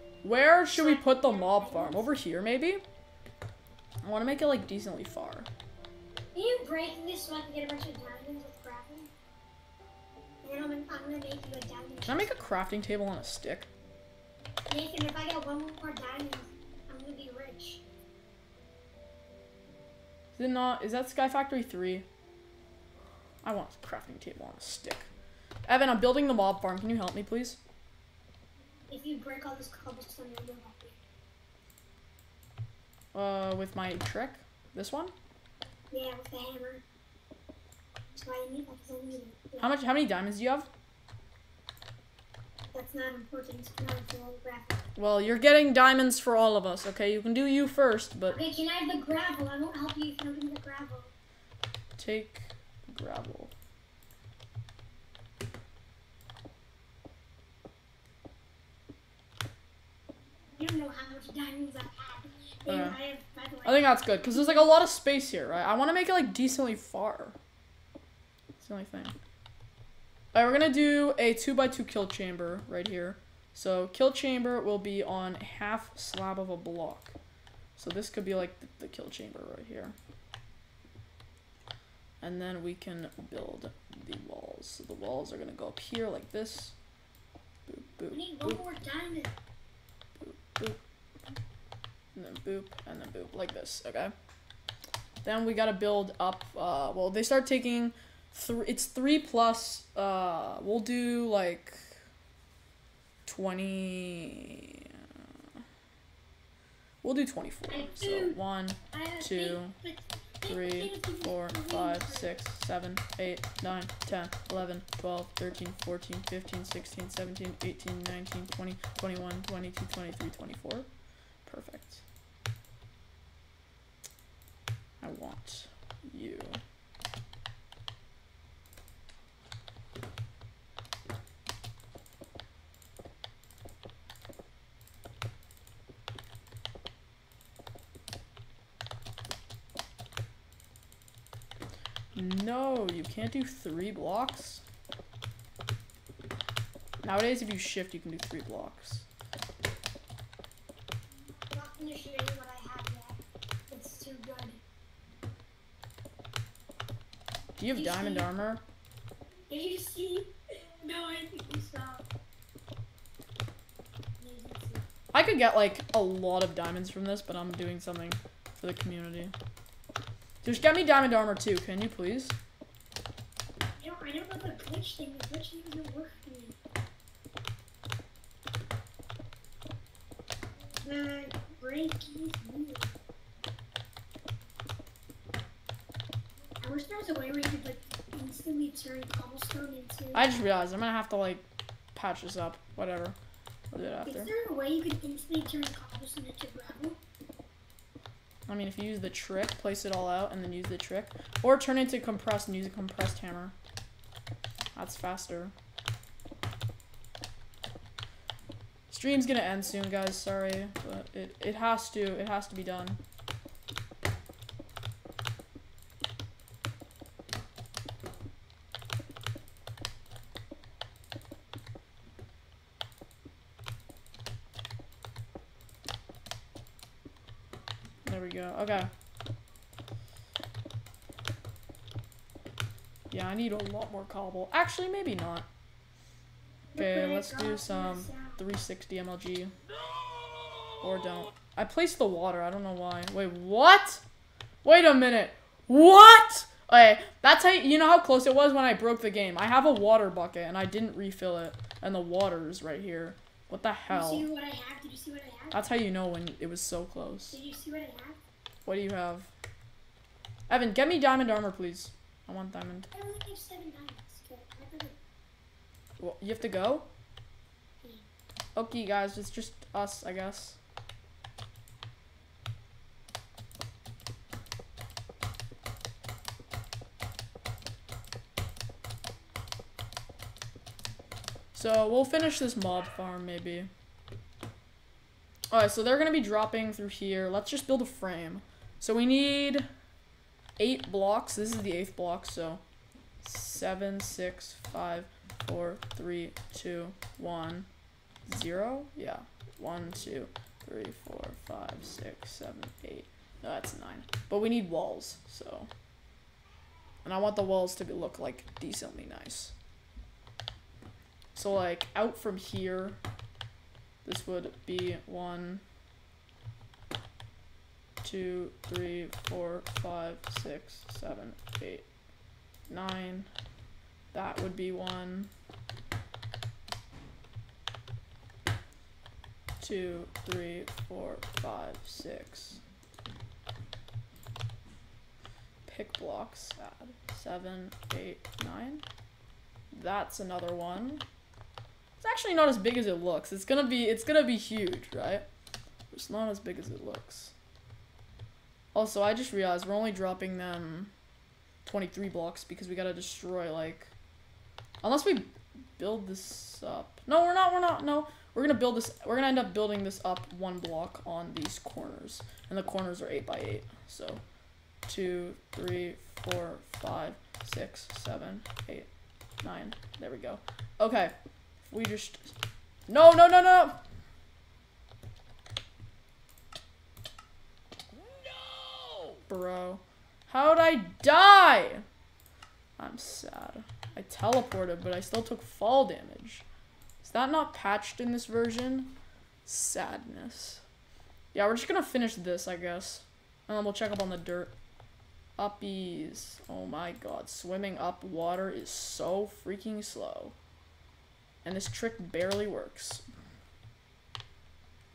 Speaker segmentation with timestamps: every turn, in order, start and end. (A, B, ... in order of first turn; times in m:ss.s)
0:00.2-0:02.8 A
0:00.7-0:02.1 B
0:04.0-0:05.5 A
0:06.3-0:09.1 B
0:10.4-0:12.3 B
0:12.1-0:13.7 A
0:14.7-0:17.8 B
0:20.4-0:22.1 A
0:23.4-0:25.1 A
0:25.7-0:27.6 A
0:28.9-0:31.0 B
0:33.1-0:35.1 A
0:35.9-0:36.8 B
0:38.2-0:39.7 B
0:39.6-0:40.7 A
0:42.7-0:44.8 B
0:45.0-0:48.4 A
0:48.3-0:51.1 B
0:52.0-0:53.5 A
1:00.6-1:04.4 B
1:02.7-1:03.0 A
1:03.6-1:07.4 A
1:08.6-1:09.2 A
1:10.3-1:17.2 A
1:17.8-1:20.0 A
1:22.2-1:26.8 A
1:27.7-1:28.6 A
1:28.1-1:29.4 B
1:30.2-1:30.8 A
1:32.2-1:34.1 A
1:35.2-1:42.0 A
1:43.3-1:44.9 A
1:47.0-1:49.8 A
1:47.7-1:48.4 B
1:48.9-1:52.3 B
1:50.4-2:00.9 A
2:01.4-2:02.0 A
2:05.0-2:06.6 A
2:22.2-2:24.6 A
2:27.0-2:29.1 A
2:31.5-2:34.6 B
2:37.6-2:38.6 A
2:37.7-2:38.3 B
2:39.5-2:42.0 B
2:44.2-2:44.9 B
2:45.1-2:49.3 A
2:50.4-2:52.4 A
2:53.8-2:56.6 B
3:00.8-3:02.9 B
3:06.6-3:10.4 B
3:10.1-3:13.2 A
3:13.7-3:14.3 A
3:14.1-3:17.0 B
3:18.5-3:23.6 A
3:24.8-3:25.5 A
3:28.9-3:33.0 A
3:48.0-3:48.9 A
3:53.1-3:55.5 A
3:56.7-3:58.4 B
3:56.8-3:59.5 A
3:59.8-4:00.8 C
4:00.8-4:04.0 A
4:04.6-4:14.3 A
4:13.9-4:15.6 B
4:15.5-4:17.4 A
4:17.3-4:18.2 B
4:18.7-4:19.3 A
4:20.5-4:22.9 A
4:22.9-4:25.0 B
4:26.0-4:26.9 A
4:27.8-4:28.1 B
4:28.6-4:30.6 A
4:41.5-4:43.7 A
4:45.5-4:49.7 A
4:50.6-4:52.6 A
4:53.2-4:57.7 A
4:58.3-5:05.7 A
5:07.0-5:09.6 A
5:11.4-5:13.0 A
5:14.0-5:15.6 A
5:18.0-5:21.9 A
5:22.7-5:23.3 A
5:24.1-5:25.3 A
5:29.6-5:32.6 A
5:35.7-5:38.8 A
5:39.7-5:41.0 A
5:42.0-5:45.2 A
5:45.9-5:47.3 A
5:48.7-5:50.9 A
5:51.6-5:53.9 A
5:54.8-6:04.2 A
6:04.9-6:08.9 A
6:09.4-6:11.1 A
6:11.7-6:12.3 A
6:12.9-6:13.8 A
6:17.9-6:19.2 C
6:19.3-6:21.8 A
6:22.8-6:26.5 A
6:27.0-6:30.6 A
6:31.3-6:34.5 A
6:35.4-6:40.4 A
6:41.4-6:43.0 A